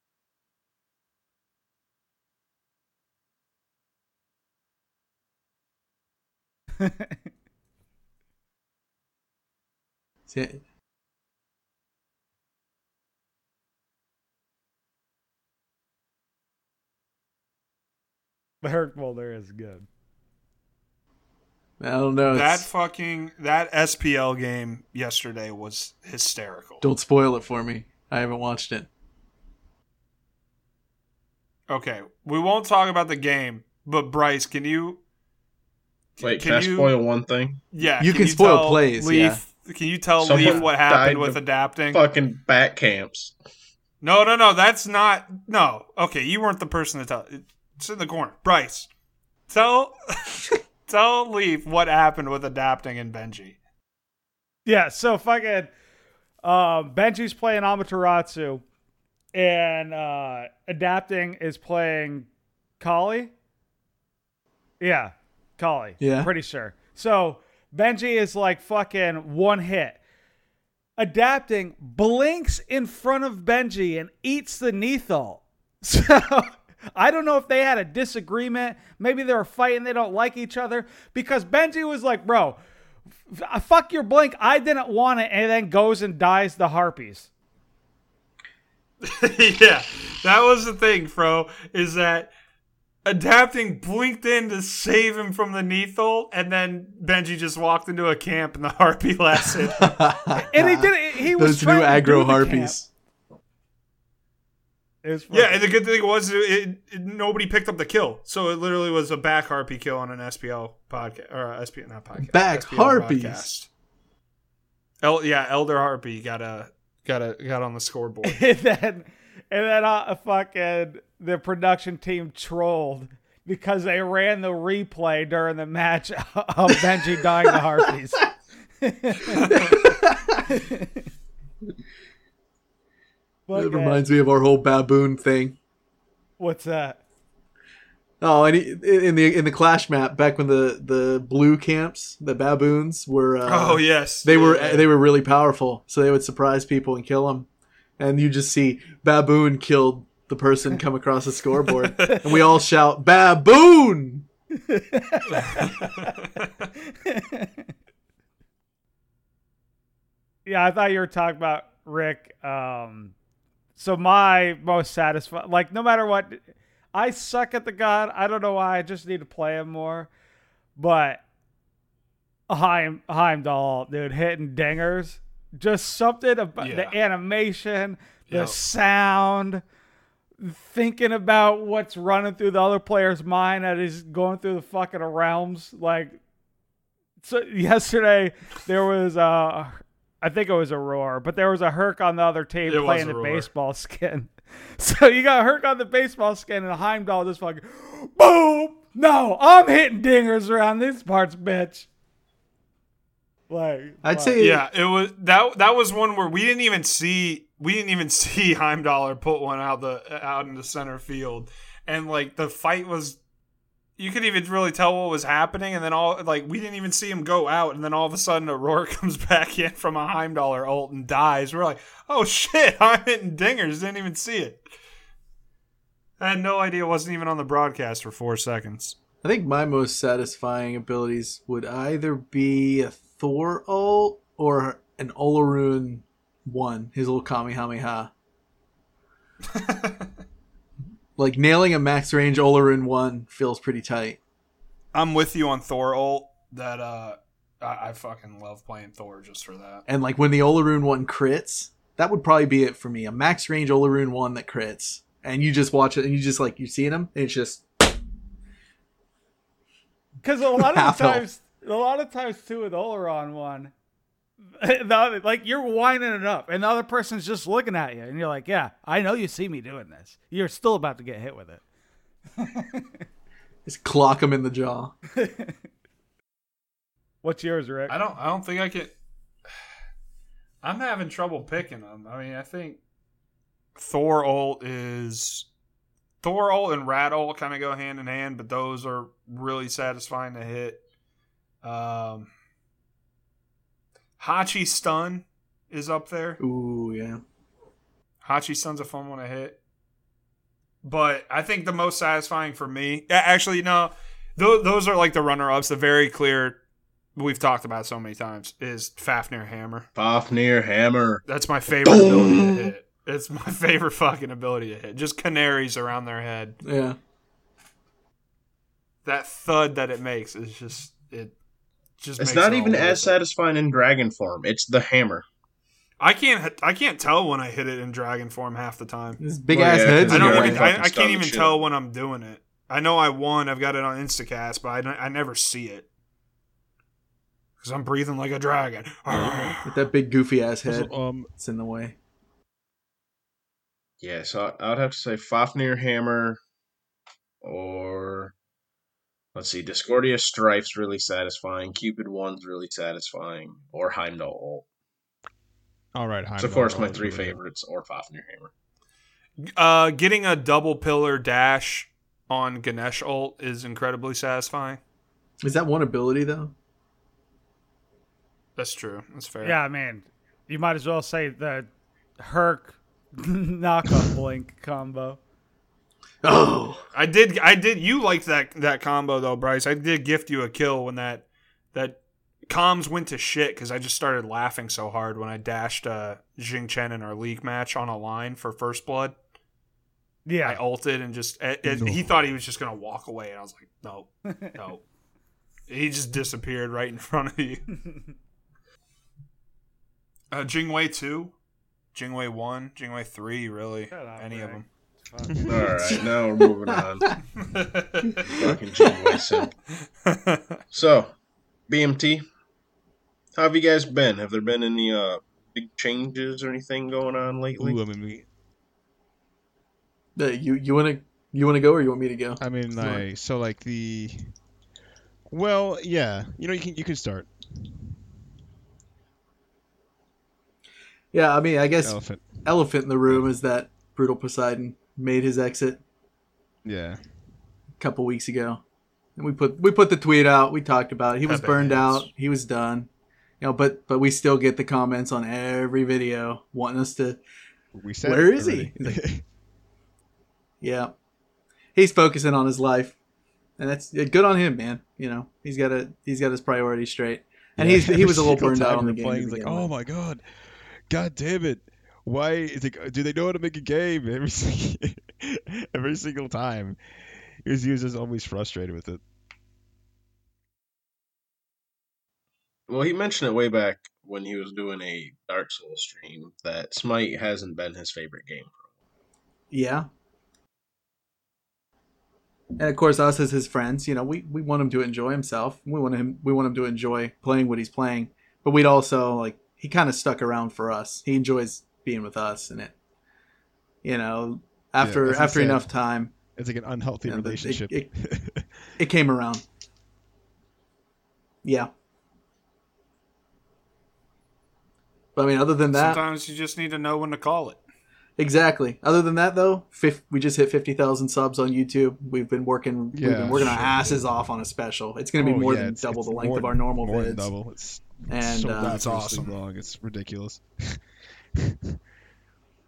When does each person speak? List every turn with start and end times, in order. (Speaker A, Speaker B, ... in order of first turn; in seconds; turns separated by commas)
Speaker A: 6.8-7.2, Speaker B: 10.3-10.6, Speaker A: 18.6-19.9, Speaker B: 21.8-22.7, Speaker C: 22.3-26.8, Speaker B: 26.8-28.9, Speaker C: 31.7-35.0, Speaker C: 36.2-36.9, Speaker D: 36.2-37.6, Speaker C: 37.7-42.0, Speaker B: 38.0-39.4, Speaker D: 40.2-43.3, Speaker B: 40.4-40.6, Speaker C: 44.0-48.9, Speaker C: 49.5-53.6, Speaker A: 54.6-55.7, Speaker A: 56.4-58.6, Speaker A: 59.3-62.3, Speaker A: 62.8-63.3, Speaker A: 64.8-70.0, Speaker B: 66.0-66.3, Speaker A: 71.0-82.6, Speaker A: 83.3-87.3, Speaker C: 89.0-92.3, Speaker C: 93.0-100.1, Speaker B: 99.8-102.9, Speaker A: 100.5-102.8, Speaker A: 105.0-105.6, Speaker C: 105.3-113.7, Speaker B: 112.2-113.5, Speaker C: 115.0-118.4, Speaker A: 118.2-128.3, Speaker A: 128.8-129.6, Speaker B: 129.3-130.4, Speaker A: 130.4-131.0, Speaker A: 133.5-134.1, Speaker B: 133.5-135.6, Speaker A: 136.4-137.0, Speaker B: 138.2-147.5, Speaker C: 143.4-144.9, Speaker B: 148.0-154.2, Speaker A: 154.7-156.1, Speaker C: 155.3-156.7, Speaker A: 157.1-157.5, Speaker A: 160.4-163.1, Speaker A: 163.8-170.1, Speaker A: 170.8-171.2, Speaker A: 172.5-179.6, Speaker C: 176.6-176.9, Speaker C: 178.3-178.6, Speaker A: 180.4-186.2, Speaker A: 187.2-201.9, Speaker C: 192.7-193.5, Speaker A: 203.5-204.4, Speaker B: 204.0-204.6, Speaker C: 204.4-213.2, Speaker C: 214.0-224.6, Speaker C: 226.2-228.9, Speaker B: 229.2-238.1, Speaker C: 239.5-240.0, Speaker B: 241.2-244.2, Speaker C: 244.9-249.8, Speaker B: 249.9-257.6, Speaker A: 260.2-263.7, Speaker B: 260.5-261.2, Speaker A: 264.6-271.6, Speaker A: 272.4-272.9, Speaker B: 273.6-275.0, Speaker A: 275.1-275.6, Speaker A: 277.2-277.9, Speaker C: 277.9-278.9, Speaker C: 280.6-282.8, Speaker C: 283.8-285.5, Speaker C: 286.2-290.8, Speaker C: 291.6-292.3, Speaker C: 294.2-296.4, Speaker B: 296.4-297.2, Speaker C: 298.2-299.6, Speaker C: 300.8-306.6, Speaker C: 307.1-309.9, Speaker D: 309.9-311.2, Speaker C: 311.3-316.6, Speaker D: 311.8-312.7, Speaker B: 316.6-317.0, Speaker C: 319.0-321.3, Speaker C: 322.0-323.2, Speaker D: 322.2-325.2, Speaker C: 326.0-329.2, Speaker B: 329.2-330.7, Speaker D: 329.5-331.6, Speaker C: 330.1-335.9, Speaker C: 337.6-339.8, Speaker E: 339.1-339.6, Speaker B: 339.6-341.9, Speaker E: 340.6-341.3, Speaker D: 344.0-346.4, Speaker D: 347.4-348.3, Speaker D: 349.3-354.6, Speaker E: 355.9-357.4, Speaker D: 356.4-358.5, Speaker C: 359.4-364.8, Speaker B: 365.4-366.5, Speaker C: 368.6-369.6, Speaker A: 369.4-371.7, Speaker A: 372.2-375.2, Speaker B: 376.2-376.8, Speaker C: 376.9-389.1, Speaker A: 390.2-390.6, Speaker C: 390.4-394.8, Speaker E: 391.6-392.2, Speaker A: 394.3-394.5, Speaker C: 395.7-397.7, Speaker C: 400.3-401.3, Speaker C: 401.9-404.6, Speaker A: 403.9-405.7, Speaker E: 405.2-405.8, Speaker D: 405.4-407.1, Speaker C: 407.4-408.3, Speaker B: 408.0-409.4, Speaker D: 408.3-409.5, Speaker C: 410.0-410.6, Speaker D: 410.7-411.1, Speaker D: 411.7-412.2, Speaker D: 413.3-417.8, Speaker E: 417.6-418.2, Speaker B: 420.1-423.0, Speaker E: 422.4-424.3, Speaker E: 425.3-427.9, Speaker B: 431.1-435.8, Speaker E: 431.8-432.4, Speaker E: 436.6-437.0, Speaker B: 437.8-438.6, Speaker B: 439.2-442.9, Speaker C: 441.2-442.1, Speaker B: 443.4-447.2, Speaker E: 447.7-449.2, Speaker B: 448.0-449.0, Speaker B: 450.6-450.9, Speaker B: 451.7-452.9, Speaker B: 453.6-459.7, Speaker E: 457.6-460.2, Speaker E: 460.9-466.8, Speaker E: 467.4-469.0, Speaker D: 472.7-478.6, Speaker B: 479.5-479.9, Speaker B: 482.6-492.7, Speaker B: 493.8-496.1, Speaker E: 494.8-495.7, Speaker E: 496.3-498.8, Speaker B: 497.1-497.9, Speaker B: 498.8-499.4, Speaker B: 501.4-501.7, Speaker B: 505.1-506.0, Speaker C: 505.7-507.6, Speaker B: 508.2-517.3, Speaker E: 512.9-514.0, Speaker C: 513.3-513.6, Speaker E: 515.1-521.8, Speaker B: 518.1-518.8, Speaker C: 518.6-519.3